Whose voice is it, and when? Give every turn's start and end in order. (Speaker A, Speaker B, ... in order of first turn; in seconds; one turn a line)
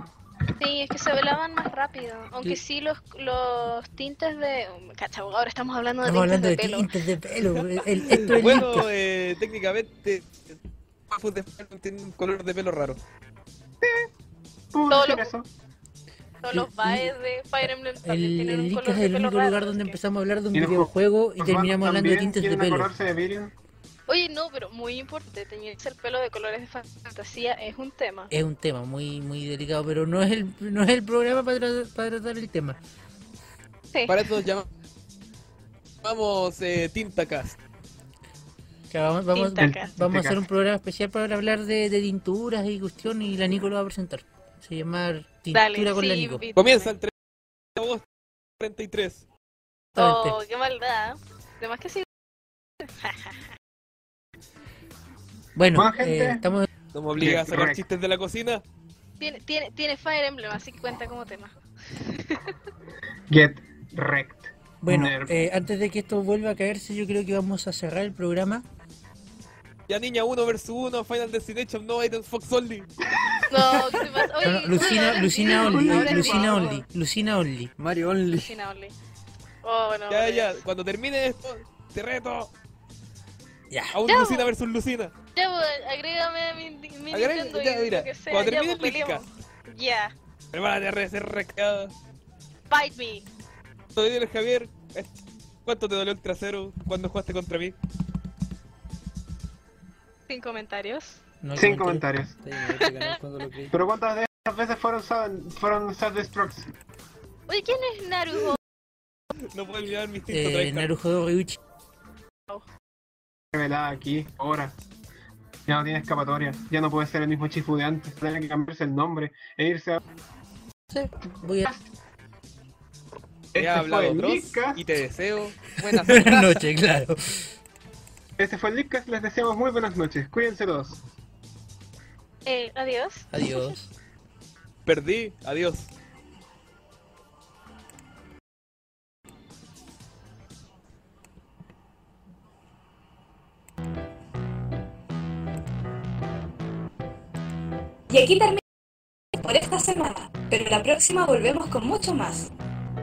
Speaker A: 0.6-6.9
Speaker B: 6.0-8.9
Speaker C: 8.1-10.6
Speaker C: 11.1-13.0
Speaker D: 13.8-14.1
Speaker D: 14.7-15.5
Speaker A: 14.9-15.3
Speaker A: 16.4-20.0
Speaker B: 16.5-17.1
Speaker B: 17.6-22.9
Speaker D: 20.5-23.5
Speaker A: 24.1-28.3
Speaker B: 28.3-32.8
Speaker C: 34.1-34.7
Speaker C: 36.0-37.6
Speaker B: 38.9-46.4
Speaker A: 39.4-39.9
Speaker D: 39.6-40.4
Speaker A: 45.5-46.8
Speaker C: 46.5-47.1
Speaker C: 47.8-48.0
Speaker C: 48.6-49.3
Speaker B: 50.0-50.4
Speaker A: 50.0-52.1
Speaker A: 52.8-53.4
Speaker B: 55.6-56.6
Speaker D: 55.7-56.5
Speaker C: 56.9-58.6
Speaker D: 57.2-57.8
Speaker A: 59.2-62.5
Speaker D: 63.3-65.4
Speaker B: 64.8-68.7
Speaker C: 69.9-72.9
Speaker D: 73.2-76.8
Speaker A: 73.5-76.8
Speaker B: 74.4-77.7
Speaker E: 77.8-78.6
Speaker A: 78.3-79.0
Speaker A: 79.6-80.6
Speaker C: 80.1-82.5
Speaker B: 83.7-84.0
Speaker C: 83.9-85.1
Speaker A: 84.1-84.5
Speaker A: 85.3-90.1
Speaker C: 87.1-89.3
Speaker C: 90.5-91.9
Speaker A: 92.7-93.3
Speaker C: 94.0-95.1
Speaker C: 95.7-97.8
Speaker A: 100.3-101.2
Speaker B: 101.4-102.0
Speaker D: 101.6-102.4
Speaker E: 102.4-103.7
Speaker A: 102.7-103.2
Speaker D: 103.7-106.7
Speaker A: 107.5-108.6
Speaker C: 109.5-110.9
Speaker B: 110.3-111.6
Speaker D: 113.5-114.8
Speaker D: 115.7-120.0
Speaker B: 120.9-121.7
Speaker D: 123.5-124.8
Speaker C: 123.6-126.7
Speaker B: 125.9-127.4
Speaker D: 128.4-131.0
Speaker A: 132.5-133.8
Speaker B: 133.3-133.9
Speaker C: 134.9-135.9
Speaker F: 148.1-148.6
Speaker F: 149.4-152.5